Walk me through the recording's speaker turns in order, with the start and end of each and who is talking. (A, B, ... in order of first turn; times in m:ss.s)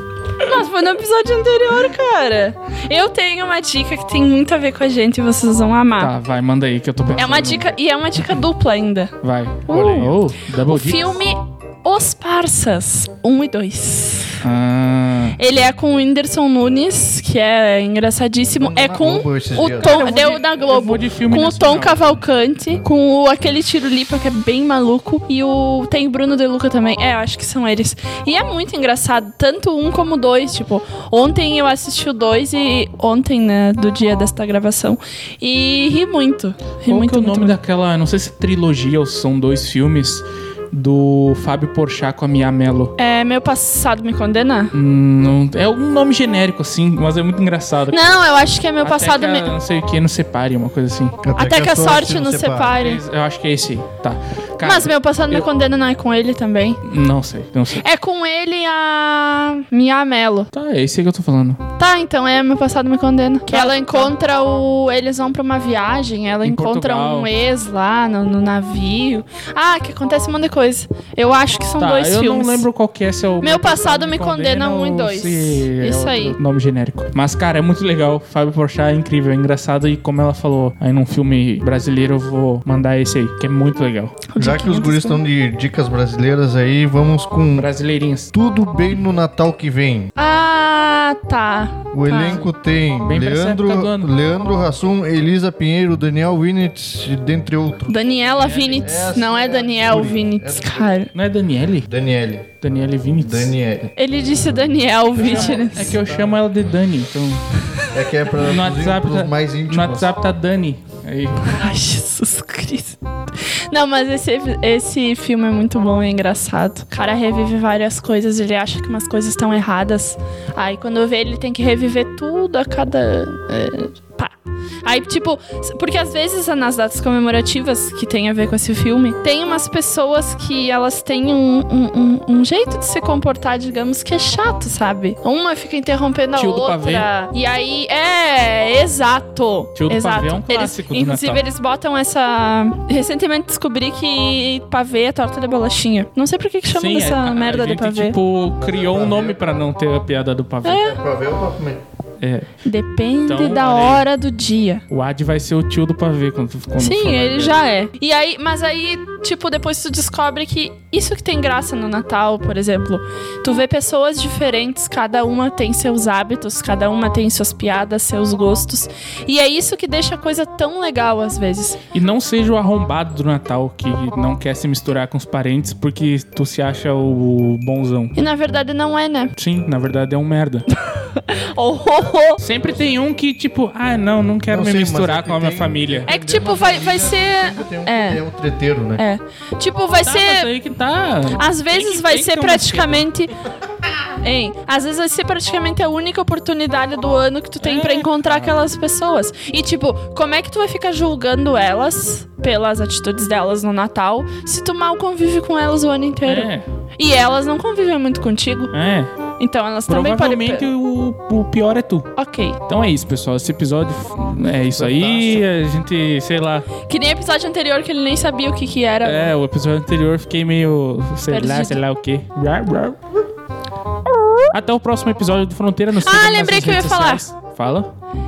0:00.4-0:06.1 A
0:06.0-0:07.7 B
0:07.1-0:09.1 A
0:09.2-0:11.2 B
0:09.7-0:14.4 A
0:09.7-0:10.2 C
0:14.4-0:15.4 B
0:15.4-0:37.6 A
0:18.6-0:19.9 C
0:19.6-0:22.2 B
0:36.9-0:42.9 B
0:43.0-0:44.7 A
0:44.7-0:48.0 B
0:47.9-0:49.5 A
0:48.8-0:51.2 B
0:51.2-0:52.7 C
0:51.4-0:53.0 A
0:52.8-0:55.4 B
0:54.6-0:56.8 A
0:56.8-0:57.8 B
0:57.8-1:00.5 A
1:00.5-1:01.6 B
1:01.8-1:12.6 A
1:03.5-1:04.1 B
1:06.4-1:07.3 B
1:11.8-1:24.2 B
1:13.4-1:16.4 A
1:24.3-1:25.2 A
1:24.4-1:27.7 C
1:27.5-1:28.3 B
1:28.3-1:30.1 C
1:30.2-1:32.4 A
1:31.9-1:40.9 C
1:32.2-1:32.5 B
1:33.0-1:34.1 B
1:37.9-1:41.1 A
1:38.3-1:39.0 B
1:41.1-1:41.9 B
1:41.9-1:42.5 C
1:42.6-1:43.5 B
1:43.2-1:43.9 C
1:44.0-1:46.0 A
1:45.2-1:47.4 B
1:45.3-1:46.4 C
1:47.9-1:50.1 C
1:48.4-1:51.5 B
1:51.4-1:53.0 A
1:53.5-2:28.2 A
2:16.3-2:17.1 B
2:19.7-2:21.4 B
2:26.7-2:30.9 B
2:28.6-2:29.6 C
2:30.6-2:31.0 A
2:30.6-2:31.8 C
2:32.2-2:32.5 B
2:32.6-2:34.8 A
2:33.3-2:34.0 B
2:34.9-2:37.6 B
2:36.8-2:51.8 A
2:51.9-2:58.1 B
2:58.1-2:59.3 A
2:59.4-3:00.6 B
3:00.7-3:02.4 A
3:02.4-3:06.1 B
3:04.5-3:09.0 C
3:06.0-3:08.2 A
3:09.0-3:10.5 A
3:10.0-3:13.0 B
3:11.4-3:13.3 A
3:14.2-3:28.7 A
3:17.6-3:18.6 B
3:26.2-3:26.6 B
3:28.7-3:29.1 B
3:29.4-3:30.7 A
3:29.9-3:32.1 B
3:32.2-3:32.6 A
3:32.7-3:36.6 B
3:34.7-3:35.4 C
3:36.8-3:39.3 A
3:39.0-3:43.0 B
3:41.3-3:41.8 A
3:44.1-3:44.5 A
3:44.5-3:47.9 B
3:46.0-3:47.2 A